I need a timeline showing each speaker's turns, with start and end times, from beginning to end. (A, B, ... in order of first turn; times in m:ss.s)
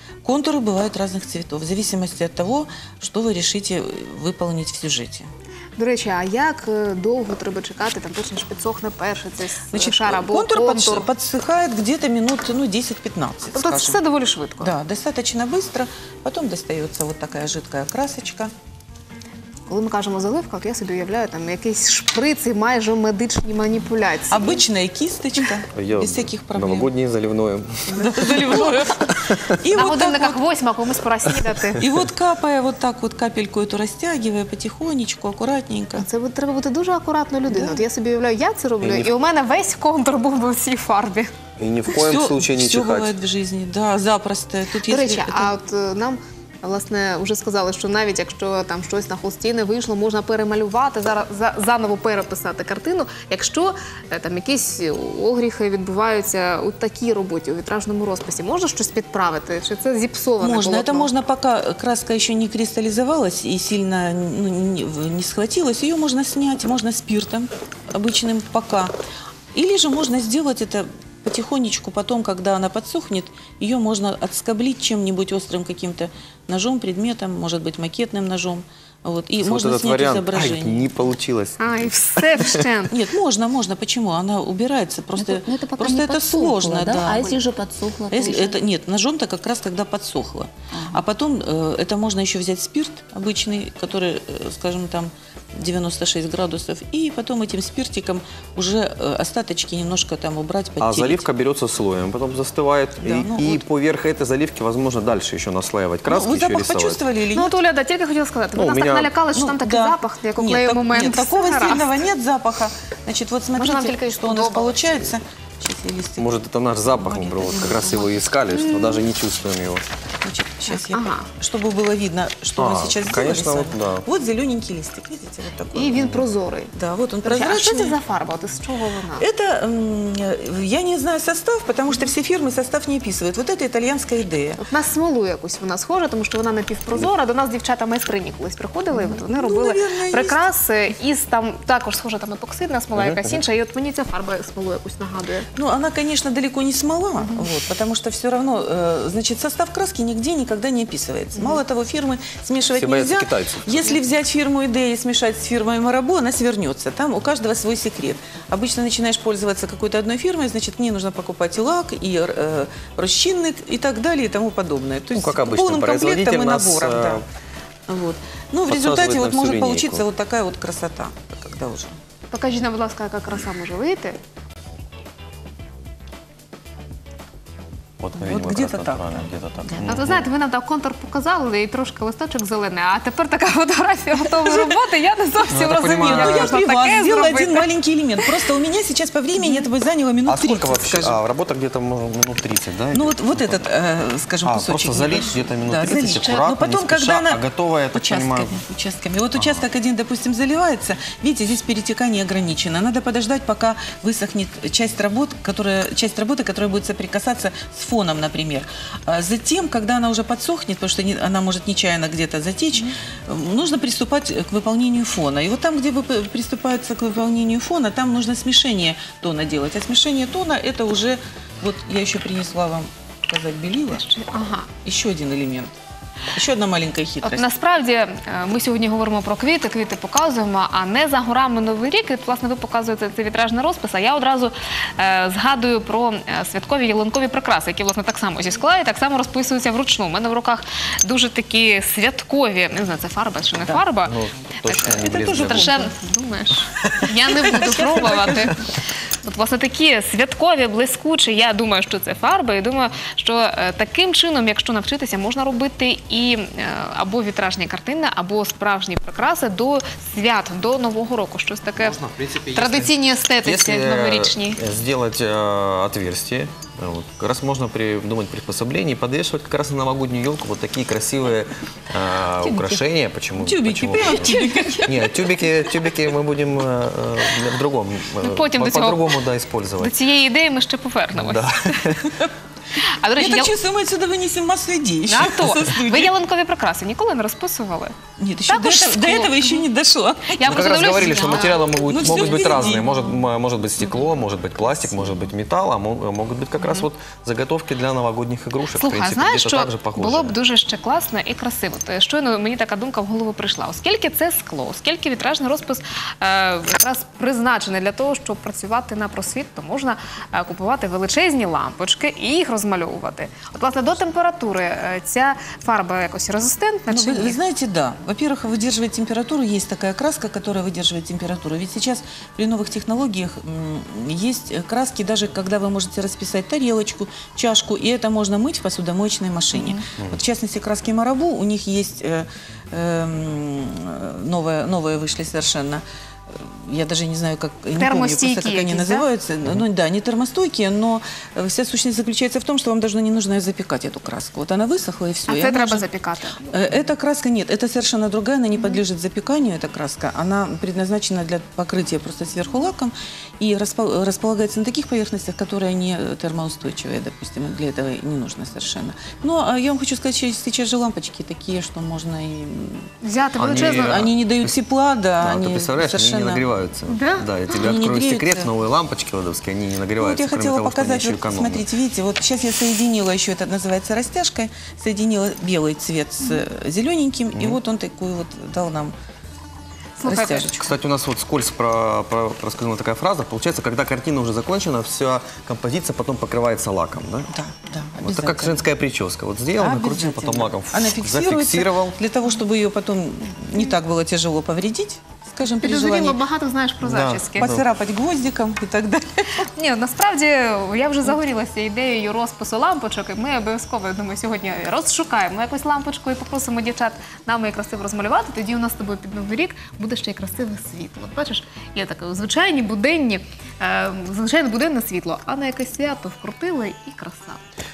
0:00.2-0:05.3 A
0:05.8-0:11.1 B
0:09.7-0:14.0 A
0:13.5-0:14.8 B
0:14.6-0:18.5 A
0:19.7-0:24.6 B
0:24.3-0:26.9 A
0:25.7-0:29.6 C
0:28.0-0:30.4 A
0:29.7-0:31.9 B
0:31.8-0:36.1 A
0:36.0-0:41.3 B
0:37.5-0:37.8 A
0:38.8-0:39.1 C
0:41.6-0:43.2 C
0:41.9-0:45.5 A
0:44.9-1:01.1 B
1:00.4-1:08.9 A
1:09.5-1:20.9 A
1:19.4-1:22.6 C
1:21.6-1:23.0 B
1:22.9-1:27.3 A
1:25.2-1:28.6 D
1:28.1-1:41.2 A
1:40.8-1:47.0 C
1:43.0-1:43.6 A
1:46.1-1:47.6 A
1:47.3-1:52.0 B
1:48.6-1:49.1 C
1:49.4-1:56.3 A
1:53.6-1:55.0 B
1:56.2-1:59.8 C
1:57.0-1:58.1 A
1:58.6-1:59.0 B
2:00.2-2:06.2 A
2:00.7-2:01.3 B
2:02.6-2:04.0 C
2:05.7-2:09.3 B
2:06.8-2:08.0 A
2:09.2-2:14.6 A
2:14.6-2:25.5 B
2:18.9-2:20.4 A
2:23.0-2:23.4 C
2:25.6-2:47.2 A
2:27.2-2:27.5 B
2:31.4-2:31.6 B
2:32.7-2:34.0 C
2:45.1-2:47.2 C
2:47.9-2:52.0 A
2:48.7-2:50.1 C
2:52.3-2:54.2 B
2:58.0-3:00.3 C
2:58.2-3:00.0 A
2:59.8-3:08.3 B
3:04.5-3:04.7 A
3:05.5-3:06.5 C
3:05.9-3:11.2 A
3:09.4-3:09.7 B
3:10.3-3:13.6 C
3:12.9-3:44.1 A
3:14.4-3:18.6 C
3:19.4-3:19.6 C
3:43.9-3:44.7 B
3:44.8-3:45.7 A
3:46.3-3:47.4 A
3:47.2-4:04.2 B
4:04.0-4:05.7 C
4:04.7-4:05.9 A
4:04.9-4:08.7 B
4:07.0-4:08.6 A
4:09.2-4:22.0 B
4:21.8-4:22.9 C
4:22.5-4:24.6 B
4:23.4-4:40.0 C
4:32.5-4:32.8 A
4:33.4-4:35.5 A
4:38.2-4:39.2 B
4:39.8-4:41.8 B
4:41.2-4:42.1 C
4:42.9-4:43.6 B
4:43.2-4:46.1 A
4:45.1-4:49.7 B
4:48.2-4:53.2 A
4:50.3-4:52.5 B
4:50.4-5:00.4 C
4:56.6-4:56.9 B
4:58.7-5:17.4 B
5:16.9-5:45.8 A
5:29.5-5:29.8 B
5:37.8-5:39.1 B
5:45.3-5:46.5 B
5:46.5-6:02.9 A
6:03.0-6:04.1 B
6:03.4-6:04.6 C
6:03.4-6:06.5 A
6:05.2-6:11.7 C
6:06.9-6:07.6 B
6:07.6-6:08.5 A
6:10.0-6:18.9 A
6:17.3-6:17.6 C
6:20.0-6:20.5 B
6:20.0-6:20.7 A
6:20.5-6:27.3 C
6:27.3-6:28.6 A
6:28.0-6:32.0 C
6:29.6-6:36.2 A
6:35.6-6:37.6 B
6:36.8-6:37.6 C
6:37.4-6:39.5 A
6:39.4-6:57.4 B